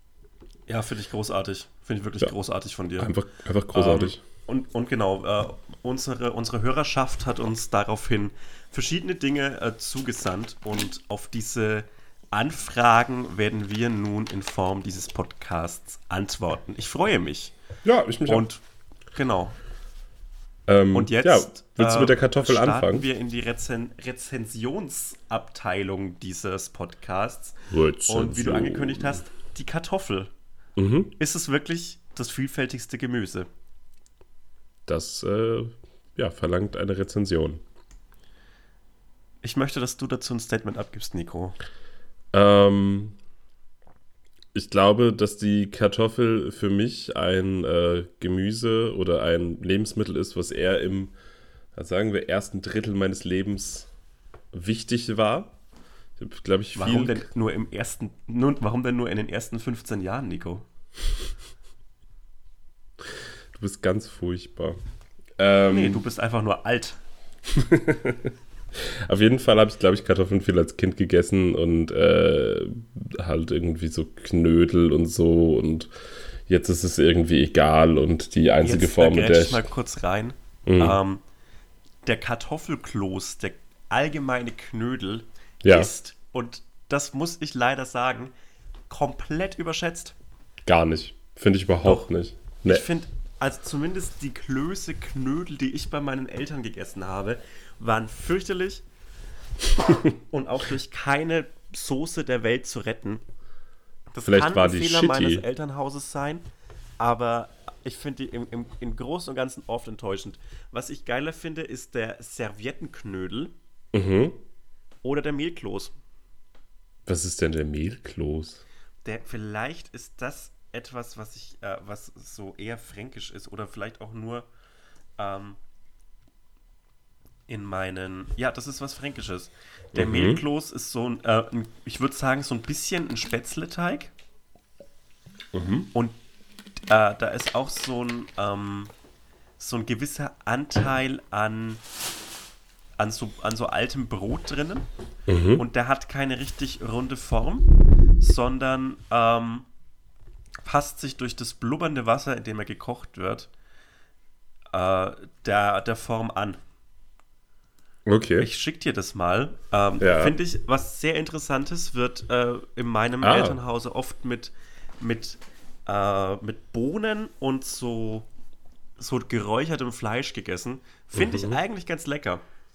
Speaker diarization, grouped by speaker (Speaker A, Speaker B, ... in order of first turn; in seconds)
Speaker A: 0.7-3.1, 3.7-17.5, 18.2-18.6, 19.1-19.5, 20.9-30.3, 31.2-33.5, 39.4-41.5, 56.8-60.6, 65.7-67.0, 78.6-81.2, 82.0-88.3, 88.9-90.1, 91.8-92.1, 92.7-98.8, 100.3-103.2, 104.1-106.4, 107.0-113.5, 115.0-115.9, 119.0-124.5, 125.2-125.6, 127.5-134.1, 136.9-138.9, 139.6-141.8, 143.0-144.9, 145.6-149.7, 150.6-153.5, 154.7-156.6, 158.4-168.3, 169.0-172.4
Speaker B: 3.0-4.2, 17.8-18.4, 20.7-23.1, 27.7-29.2, 30.8-31.1, 34.9-37.6, 42.3-43.1, 44.5-51.1, 51.8-53.9, 54.5-55.5, 56.2-57.3, 63.5-64.8, 65.4-66.0, 67.5-68.3, 69.0-75.9, 76.5-79.7, 80.7-81.0, 85.6-85.9, 90.7-92.8, 104.2-105.4, 113.9-114.4, 117.0-118.6, 129.9-130.4, 135.5-135.9, 145.3-145.6, 158.1-158.5, 160.0-160.3, 163.2-163.6, 171.1-171.6